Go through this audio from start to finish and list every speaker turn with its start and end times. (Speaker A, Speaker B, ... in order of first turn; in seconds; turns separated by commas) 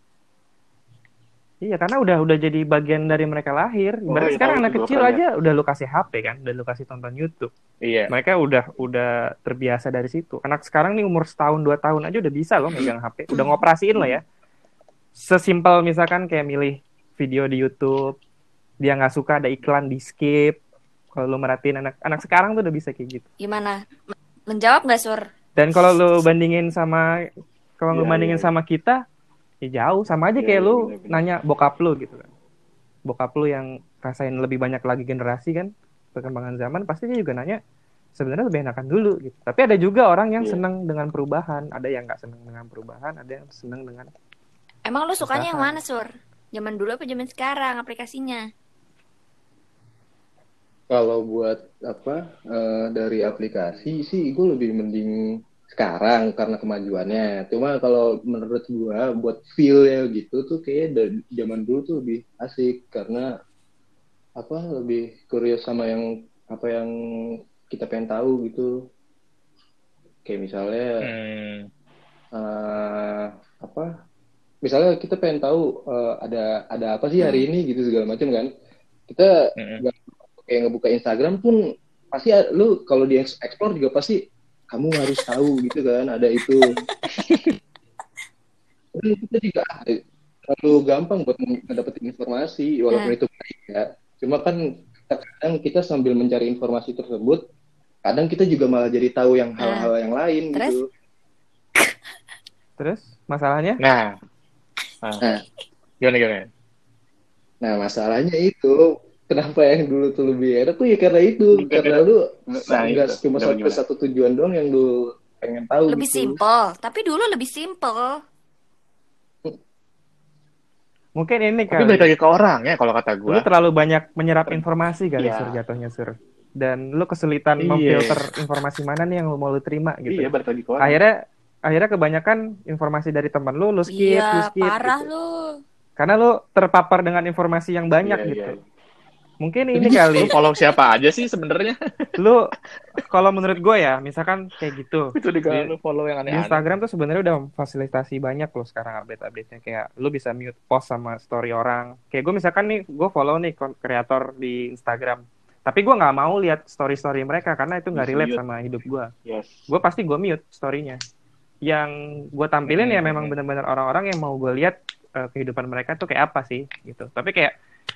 Speaker A: 1.6-7.5, Speaker B: 4.1-5.2, Speaker C: 7.8-8.1, Speaker A: 8.1-14.2, Speaker D: 13.3-13.6, Speaker A: 15.2-18.1, Speaker A: 18.8-20.6, Speaker A: 21.2-23.2, Speaker D: 23.4-25.2, Speaker A: 25.6-27.1, Speaker A: 27.8-29.0, Speaker B: 27.9-28.5, Speaker A: 29.6-32.3, Speaker B: 30.4-31.3, Speaker A: 33.1-37.6, Speaker A: 38.2-44.1, Speaker D: 44.9-48.5, Speaker A: 45.2-45.8, Speaker E: 50.9-55.1, Speaker E: 55.7-63.3, Speaker E: 64.4-66.9, Speaker E: 67.7-68.7, Speaker E: 70.3-71.1, Speaker C: 71.0-71.7, Speaker E: 72.3-73.9, Speaker E: 74.7-78.5, Speaker D: 77.2-77.5, Speaker C: 79.6-79.8, Speaker E: 79.8-81.6, Speaker E: 82.1-84.2, Speaker E: 84.7-86.7, Speaker C: 87.2-87.6, Speaker E: 89.0-97.4, Speaker E: 98.0-100.8, Speaker D: 99.6-99.9, Speaker A: 102.8-103.8, Speaker C: 103.8-104.2, Speaker C: 106.0-106.5, Speaker E: 107.6-116.4, Speaker B: 111.5-113.8, Speaker C: 112.7-113.0, Speaker D: 115.9-118.2, Speaker A: 121.2-122.1, Speaker C: 121.7-123.5, Speaker A: 123.3-131.2, Speaker B: 125.2-125.6, Speaker C: 127.6-128.2, Speaker B: 130.1-131.0, Speaker A: 131.7-135.1, Speaker D: 133.9-135.5, Speaker A: 136.0-138.6, Speaker B: 138.0-138.6, Speaker A: 139.4-140.3, Speaker C: 139.7-141.8, Speaker A: 142.2-142.4, Speaker A: 143.0-145.8, Speaker C: 145.2-146.6, Speaker A: 146.3-159.1, Speaker B: 157.9-158.4, Speaker B: 159.3-159.7, Speaker A: 159.7-161.0, Speaker A: 161.7-167.6, Speaker C: 162.7-163.3